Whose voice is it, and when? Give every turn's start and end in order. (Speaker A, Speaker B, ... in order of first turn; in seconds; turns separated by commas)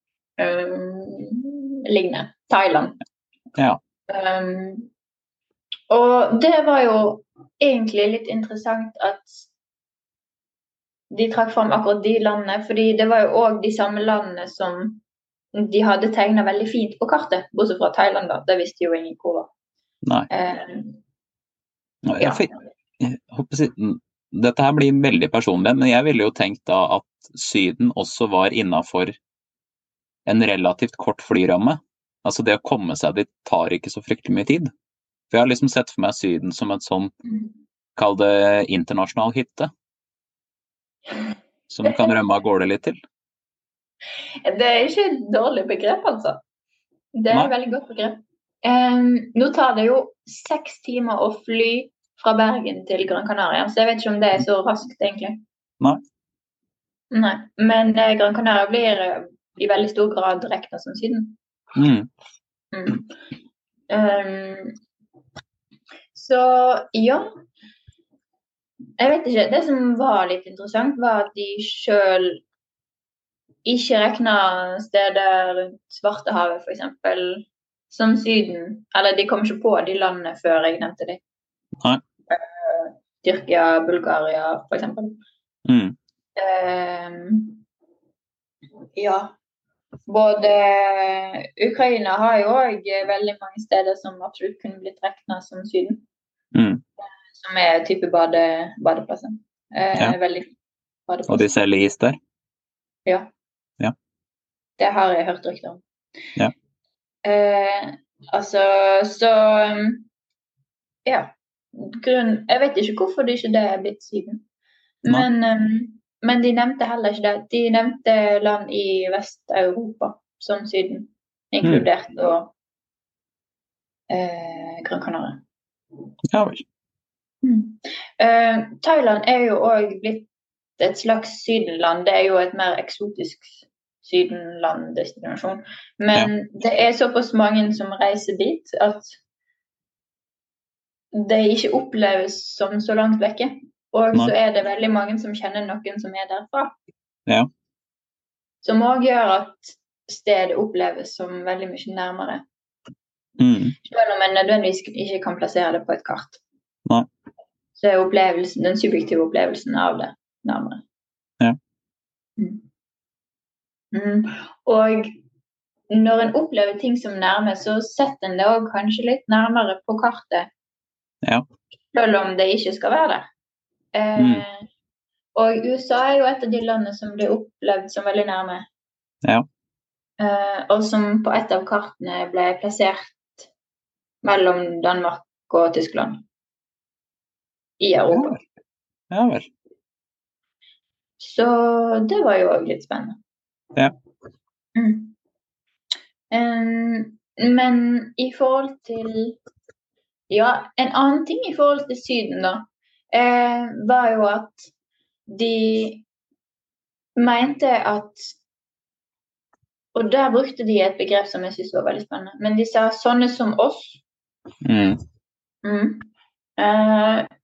Speaker A: 0.4-3.0, Speaker A: 4.1-4.9, Speaker A: 5.9-9.5, Speaker A: 11.1-15.0, Speaker A: 15.6-19.5, Speaker A: 20.3-21.0, Speaker B: 22.1-29.2, Speaker A: 22.2-22.5, Speaker B: 30.3-34.7, Speaker B: 35.3-37.1, Speaker B: 38.0-39.7, Speaker B: 41.7-43.0, Speaker A: 41.8-42.1, Speaker A: 44.5-46.4, Speaker A: 47.1-55.4, Speaker A: 57.1-61.4, Speaker B: 61.8-62.1, Speaker A: 62.7-63.1, Speaker A: 63.9-64.8, Speaker A: 66.1-67.3, Speaker A: 69.0-72.4, Speaker A: 73.7-81.2, Speaker A: 82.3-85.2, Speaker B: 85.7-86.0, Speaker A: 86.4-87.6, Speaker A: 89.0-89.4, Speaker A: 90.1-96.1, Speaker B: 96.5-96.8, Speaker A: 97.3-100.5, Speaker A: 101.1-101.5, Speaker B: 101.3-102.2, Speaker A: 104.8-105.8, Speaker A: 107.2-110.1, Speaker A: 111.1-114.4, Speaker A: 115.0-122.5, Speaker A: 124.1-125.4, Speaker B: 126.3-126.7, Speaker A: 127.4-139.2, Speaker A: 141.1-146.8, Speaker A: 148.6-152.4, Speaker B: 153.4-153.8, Speaker A: 153.8-156.4, Speaker A: 157.8-160.8, Speaker A: 162.4-162.7, Speaker A: 163.9-165.1, Speaker A: 165.9-170.5, Speaker A: 171.9-173.3, Speaker A: 173.9-174.7, Speaker B: 174.2-174.4, Speaker A: 175.3-178.7, Speaker A: 180.2-183.5, Speaker A: 184.2-186.2, Speaker A: 187.8-188.4, Speaker B: 188.1-188.4, Speaker B: 189.1-189.5, Speaker A: 191.2-193.2, Speaker A: 194.8-195.2, Speaker A: 196.3-199.4, Speaker A: 200.3-204.7, Speaker A: 205.3-206.1, Speaker A: 207.2-208.4, Speaker A: 209.9-214.0, Speaker B: 214.6-215.0, Speaker A: 215.6-217.3